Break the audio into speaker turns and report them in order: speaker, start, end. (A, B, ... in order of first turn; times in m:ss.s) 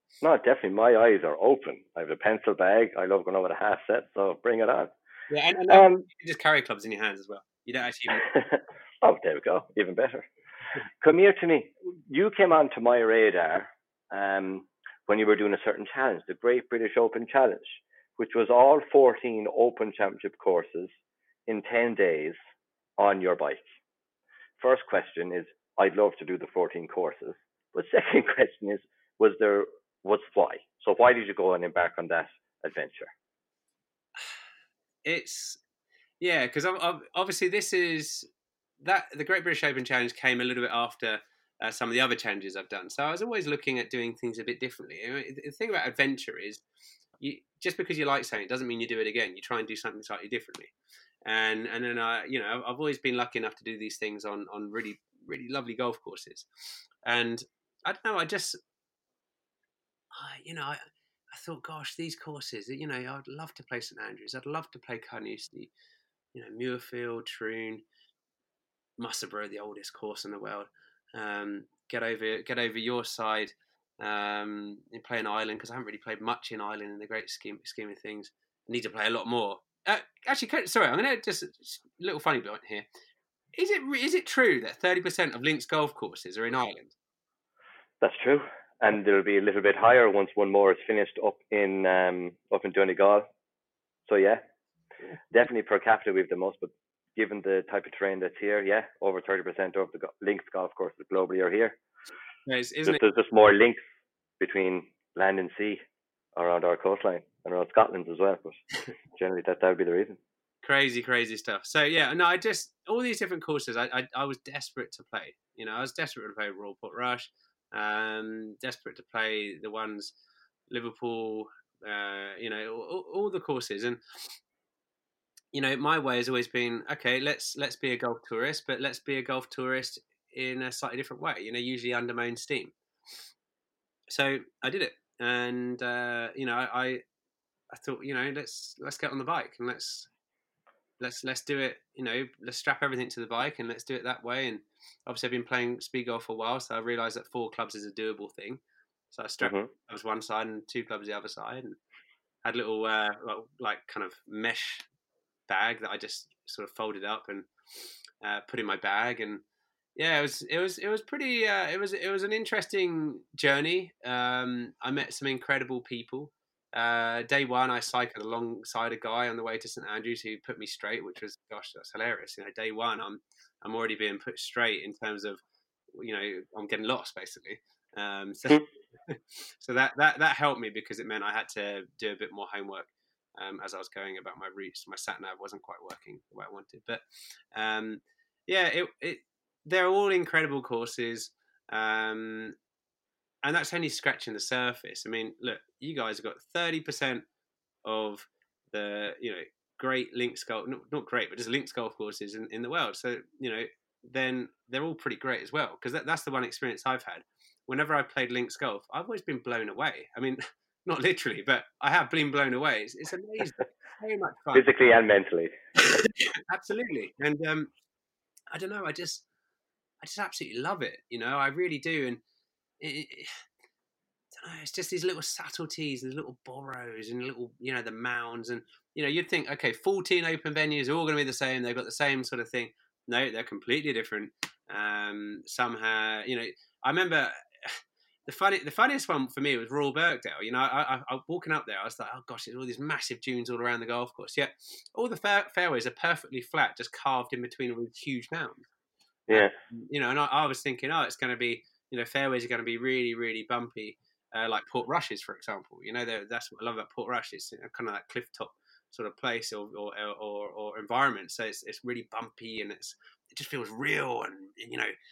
0:00.2-0:04.9 A
0:05.3-0:08.3 B
0:05.7-0:06.1 A
0:08.2-0:10.3 A
0:11.0-0:20.9 A
0:21.5-0:22.4 A
0:23.0-0:23.7 A
0:24.6-0:33.1 A
0:35.0-0:35.6 B
0:36.2-0:38.3 B
0:38.8-0:46.6 B
0:47.2-0:50.7 B
0:51.3-0:56.5 B
0:57.1-0:58.6 B
1:00.1-1:05.7 B
1:06.3-1:07.8 B
1:09.0-1:22.9 B
1:23.5-1:27.0 B
1:28.0-1:33.3 A
1:34.1-1:34.4 A
1:35.3-1:41.8 A
1:42.5-1:43.0 B
1:42.8-1:43.8 A
1:44.4-1:45.8 A
1:46.4-1:48.6 A
1:49.1-1:50.2 A
1:50.6-2:00.1 B
2:00.7-2:04.0 B
2:05.5-2:12.7 B
2:14.1-2:17.0 B
2:17.7-2:20.1 B
2:21.0-2:28.6 B
2:29.1-2:31.8 B
2:29.4-2:29.7 A
2:32.4-2:34.9 B
2:35.5-2:37.5 B
2:38.2-2:39.4 B
2:40.0-2:55.4 B
2:56.0-3:12.6 B
3:13.4-3:17.2 B
3:17.8-3:34.7 B
3:34.5-3:35.5 A
3:35.9-3:37.7 B
3:38.5-3:39.2 B
3:40.0-3:42.2 B
3:42.8-3:43.4 B
3:44.4-4:08.6 B
4:09.3-4:09.5 A
4:09.3-4:24.9 B